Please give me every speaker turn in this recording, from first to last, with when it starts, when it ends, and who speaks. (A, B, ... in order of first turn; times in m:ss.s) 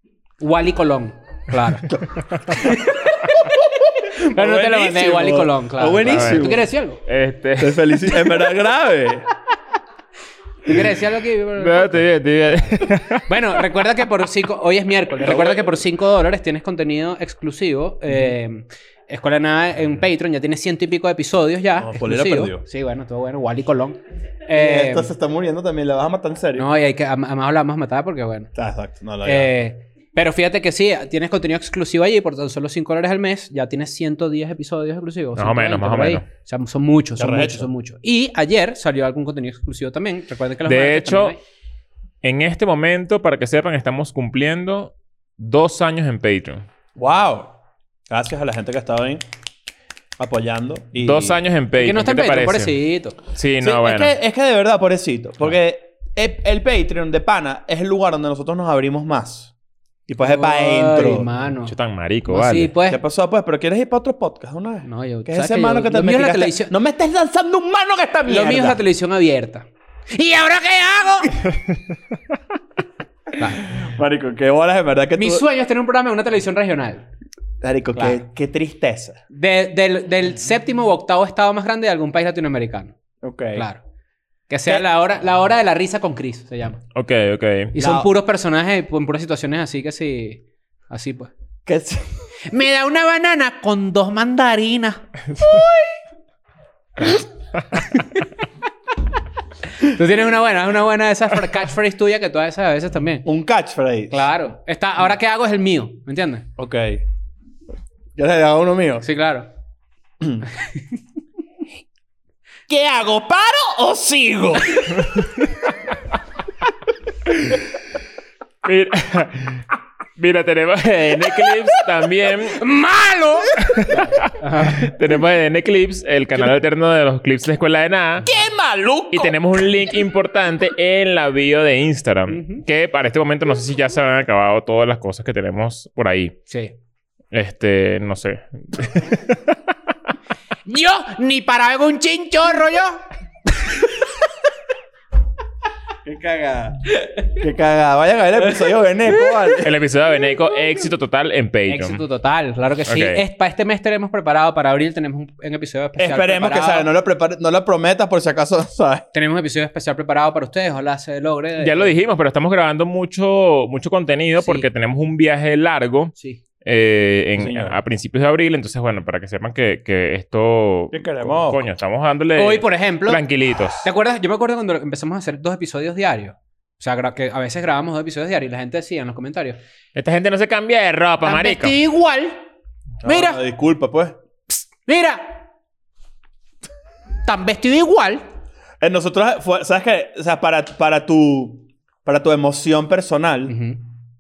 0:00.4-0:02.0 A
0:01.9-0:02.9 B
0:02.5-0:03.6 A
0:03.8-0:06.7 B
0:04.2-0:07.0 A
0:06.1-0:08.0 C
0:07.6-0:09.3 B
0:10.6-0:12.7 A
0:11.6-0:13.3 C
0:13.2-0:25.1 A
0:15.2-0:15.8 B
0:21.8-0:22.6 B
0:24.5-0:26.7 B
0:26.6-0:28.5 A
0:28.6-0:29.5 B
0:29.2-0:41.4 A
0:35.4-0:36.2 C
0:37.2-0:37.7 B
0:40.6-0:41.4 C
0:42.2-0:46.6 C
0:47.0-0:47.5 B
0:48.1-0:49.2 B
0:50.2-0:51.4 B
0:51.0-0:54.1 C
0:51.8-0:53.2 A
0:53.6-0:59.5 B
1:00.1-1:01.3 B
1:00.2-1:01.8 A
1:01.7-1:02.7 C
1:02.3-1:03.0 A
1:02.9-1:08.8 B
1:04.8-1:06.7 A
1:08.3-1:11.4 A
1:11.5-1:11.8 C
1:13.4-1:13.7 A
1:13.7-1:15.4 B
1:15.2-1:17.1 A
1:17.6-1:19.2 B
1:18.0-1:18.2 A
1:19.3-1:23.0 A
1:23.2-1:23.7 B
1:23.6-1:23.8 A
1:24.5-1:26.8 A
1:27.0-1:27.8 C
1:27.7-1:31.3 A
1:27.8-1:28.1 B
1:31.7-1:32.1 B
1:32.5-1:35.1 A
1:35.4-1:35.9 B
1:37.9-1:38.2 A
1:39.8-1:43.3 A
1:43.2-1:44.3 B
1:44.1-1:46.5 A
1:46.6-1:47.0 B
1:48.2-1:49.0 B
1:49.0-1:49.5 A
1:52.7-1:55.1 B
1:55.0-1:55.3 C
1:58.6-2:02.6 C
2:02.5-2:04.9 A
2:03.6-2:08.3 C
2:08.2-2:09.4 B
2:09.1-2:16.4 C
2:12.3-2:12.6 A
2:16.5-2:16.7 A
2:17.3-2:19.6 C
2:20.7-2:23.0 A
2:26.0-2:29.7 B
2:29.6-2:32.0 C
2:31.7-2:36.9 A
2:32.9-2:33.2 C
2:36.0-2:39.0 B
2:39.1-2:42.0 A
2:41.6-2:53.9 C
2:44.4-2:44.7 A
2:47.4-2:47.8 B
2:50.9-2:51.6 B
2:52.4-2:53.2 A
2:53.8-2:59.6 A
3:00.0-3:01.8 C
3:01.2-3:02.4 A
3:03.0-3:04.2 B
3:03.0-3:03.4 A
3:04.5-3:05.4 A
3:07.2-3:08.2 A
3:08.8-3:13.5 B
3:13.5-3:13.8 A